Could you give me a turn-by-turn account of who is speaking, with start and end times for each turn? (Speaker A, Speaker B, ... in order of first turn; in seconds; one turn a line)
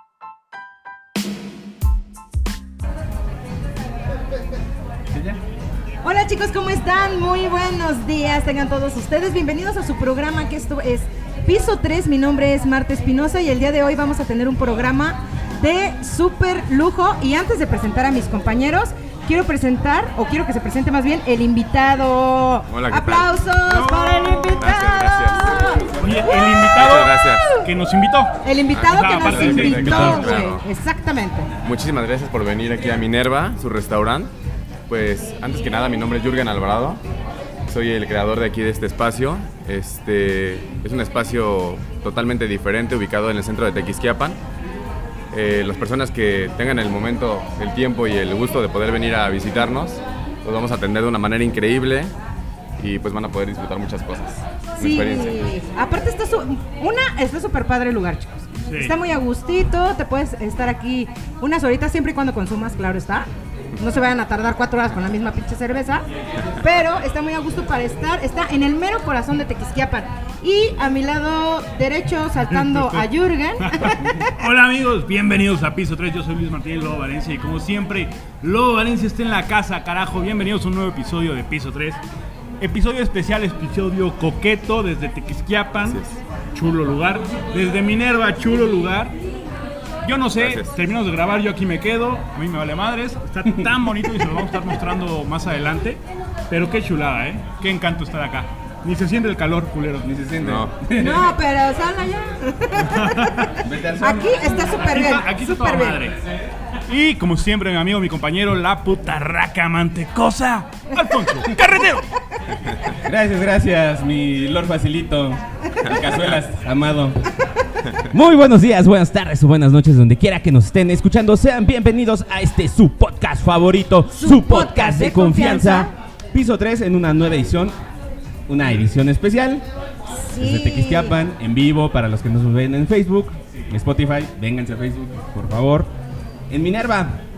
Speaker A: 5.1-5.4
Speaker B: 6.0-27.7
Speaker C: 22.7-23.3
Speaker D: 23.6-24.8
Speaker C: 24.6-25.6
Speaker A: 25.5-26.4
Speaker D: 26.0-28.3
Speaker C: 26.7-27.5
Speaker B: 28.4-31.5
Speaker C: 28.7-30.6
Speaker D: 28.9-30.3
Speaker C: 31.6-34.3
Speaker C: 34.9-37.0
Speaker C: 37.7-44.4
Speaker C: 45.3-52.1
Speaker C: 52.8-55.5
Speaker B: 54.8-66.0
Speaker D: 58.6-59.0
Speaker B: 66.6-74.3
Speaker D: 72.5-82.0
Speaker D: 82.6-86.0
Speaker C: 85.8-86.2
Speaker D: 86.5-89.2
Speaker D: 90.0-100.1
Speaker C: 90.4-90.7
Speaker A: 100.0-101.4
Speaker C: 100.4-100.7
Speaker B: 101.0-106.0
Speaker D: 102.9-103.5
Speaker A: 103.6-104.7
Speaker D: 104.7-106.2
Speaker D: 106.9-112.1
Speaker A: 113.0-117.3
Speaker A: 118.0-127.7
Speaker B: 124.1-125.9
Speaker A: 128.5-129.7
Speaker B: 130.1-131.2
Speaker A: 130.4-135.9
Speaker A: 136.5-137.2